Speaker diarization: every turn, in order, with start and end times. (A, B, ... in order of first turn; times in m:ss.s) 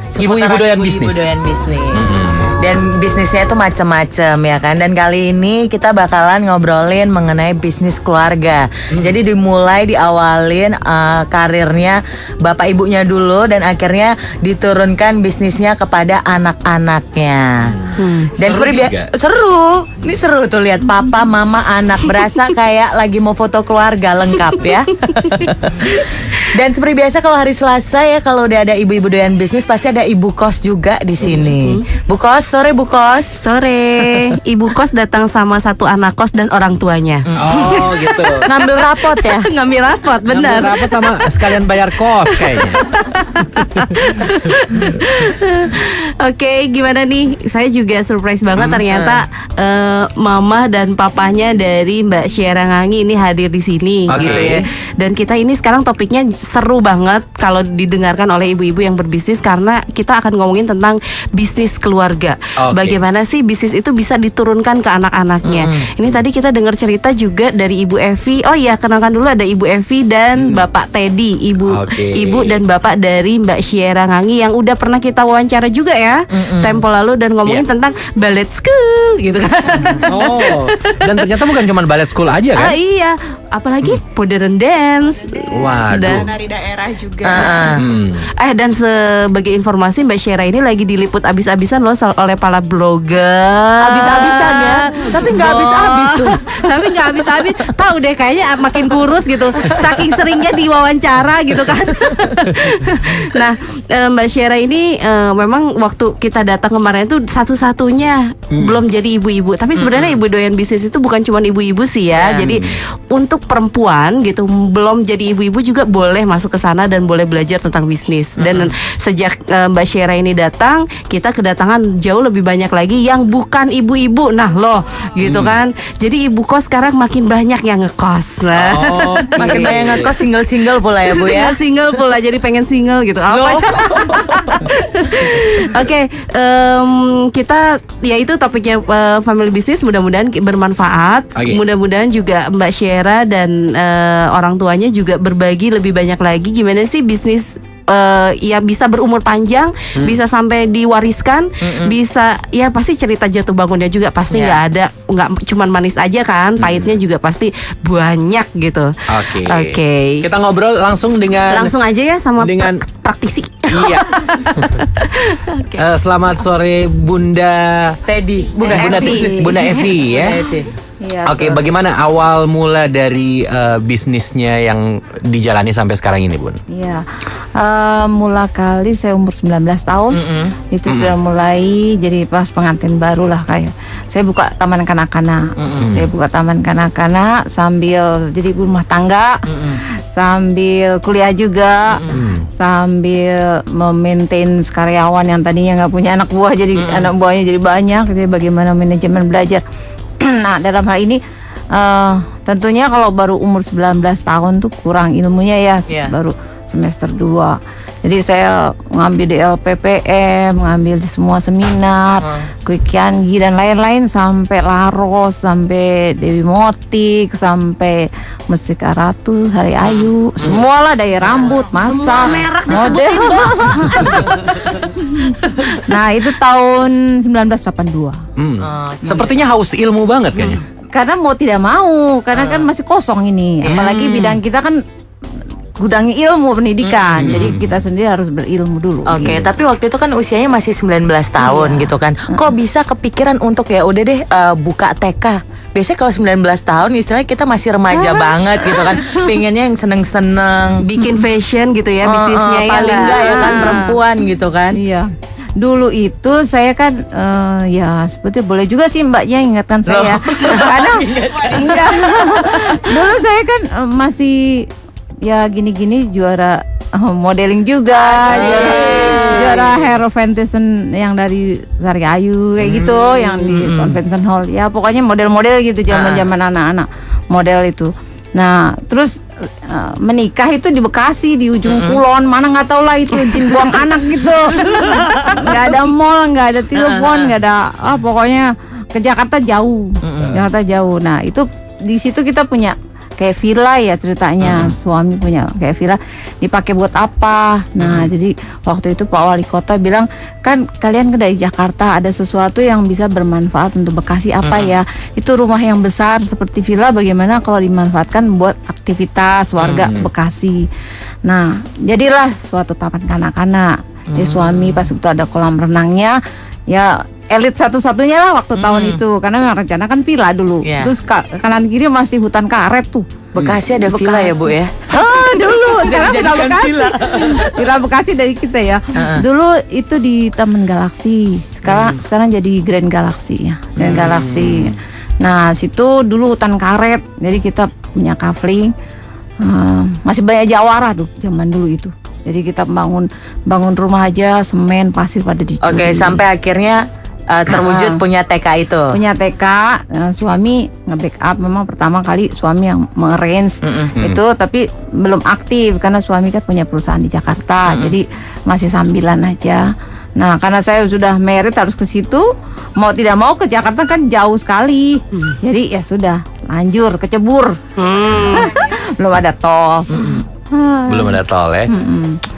0:00.1-0:17.7 A
0:00.2-0:01.3 B
0:01.9-0:02.6 B
0:17.7-0:19.1 B
0:18.0-0:18.3 C
0:18.4-0:33.4 A
0:25.9-0:26.3 C
0:31.2-0:31.8 C
0:33.4-0:41.2 C
0:37.3-0:37.9 A
0:37.4-0:38.5 B
0:38.4-0:39.5 A
0:40.3-0:42.8 B
0:42.4-1:21.6 C
0:43.8-0:44.1 B
0:48.6-0:49.2 A
0:54.1-0:54.6 B
0:54.2-0:54.5 A
1:02.6-1:03.0 B
1:05.4-1:05.9 A
1:11.6-1:12.6 B
1:16.4-1:16.8 A
1:20.1-1:22.8 B
1:22.6-1:27.7 C
1:25.5-1:26.3 B
1:27.2-1:27.8 A
1:27.7-1:28.3 B
1:28.4-2:10.2 C
1:33.8-1:36.4 A
1:48.5-1:48.8 B
1:49.8-1:50.2 A
1:52.1-1:52.6 A
1:58.4-1:58.7 A
2:05.2-2:05.6 B
2:08.5-2:10.1 B
2:09.4-2:11.6 A
2:11.1-2:40.2 C
2:13.3-2:14.4 A
2:21.4-2:21.6 B
2:31.6-2:31.9 A
2:34.3-2:34.6 A
2:36.6-2:37.0 B
2:39.1-2:41.7 B
2:41.5-2:45.8 C
2:42.4-2:42.8 B
2:43.7-2:44.7 B
2:45.8-2:48.0 B
2:48.1-2:49.1 A
2:48.6-2:50.0 D
2:48.6-2:49.9 C
2:48.7-2:50.4 B
2:50.1-2:50.7 A
2:51.0-2:51.7 D
2:51.2-2:56.6 B
2:56.7-2:57.1 D
2:57.6-3:00.2 D
3:00.1-3:00.6 A
3:00.7-3:09.3 D
3:00.9-3:01.1 B
3:05.6-3:05.9 A
3:05.8-3:06.1 B
3:09.5-3:09.8 A
3:10.2-3:12.0 D
3:11.9-3:12.2 A
3:12.1-3:12.4 B
3:12.6-3:19.6 D
3:16.8-3:17.1 A
3:20.2-3:21.2 D
3:21.7-3:44.4 D
3:32.2-3:32.5 A
3:41.8-3:44.7 C
3:42.7-3:42.9 A
3:45.2-3:48.2 D
3:45.3-3:45.8 C
3:48.4-3:50.6 B
3:48.6-3:49.4 A
3:50.9-3:54.8 D
3:52.4-3:52.7 A
3:53.6-3:54.0 A
3:53.7-3:54.3 B
3:55.8-3:59.5 D
3:56.8-3:57.5 A
3:57.2-3:57.8 B
3:59.1-4:10.8 A
4:01.4-4:02.5 D
4:10.8-4:14.0 C
4:12.0-4:14.8 A
4:13.1-4:13.8 D
4:14.7-4:15.1 D
4:15.6-4:24.7 D
4:19.9-4:23.0 A
4:25.2-4:39.1 D
4:28.1-4:29.8 A
4:28.2-4:29.6 C
4:32.6-4:33.4 B
4:33.5-4:34.0 A
4:35.9-4:36.3 A
4:39.7-5:10.7 D
4:41.7-4:42.0 A
4:44.7-4:45.5 A
4:46.7-4:47.3 A
4:50.0-4:50.4 A
4:57.8-4:58.1 A
5:04.4-5:04.7 A
5:09.6-5:09.9 A
5:09.8-5:10.1 B
5:11.3-5:16.2 D
5:14.1-5:14.9 A
5:16.7-5:23.0 D
5:18.6-5:19.0 A
5:20.6-5:20.9 A
5:23.4-5:27.6 A
5:23.8-5:38.7 D
5:29.0-5:29.2 A
5:31.7-5:32.0 A
5:33.8-5:34.1 A
5:33.8-5:34.8 B
5:39.4-5:46.2 D
5:45.6-5:49.0 A
5:47.5-5:48.0 D
5:48.9-6:02.3 D
5:53.6-5:53.9 A
5:54.0-5:54.2 B
5:57.7-5:58.0 A
6:02.8-6:09.9 D
6:07.8-6:08.6 C
6:09.9-6:10.2 A
6:10.5-6:12.2 D
6:10.9-6:11.7 B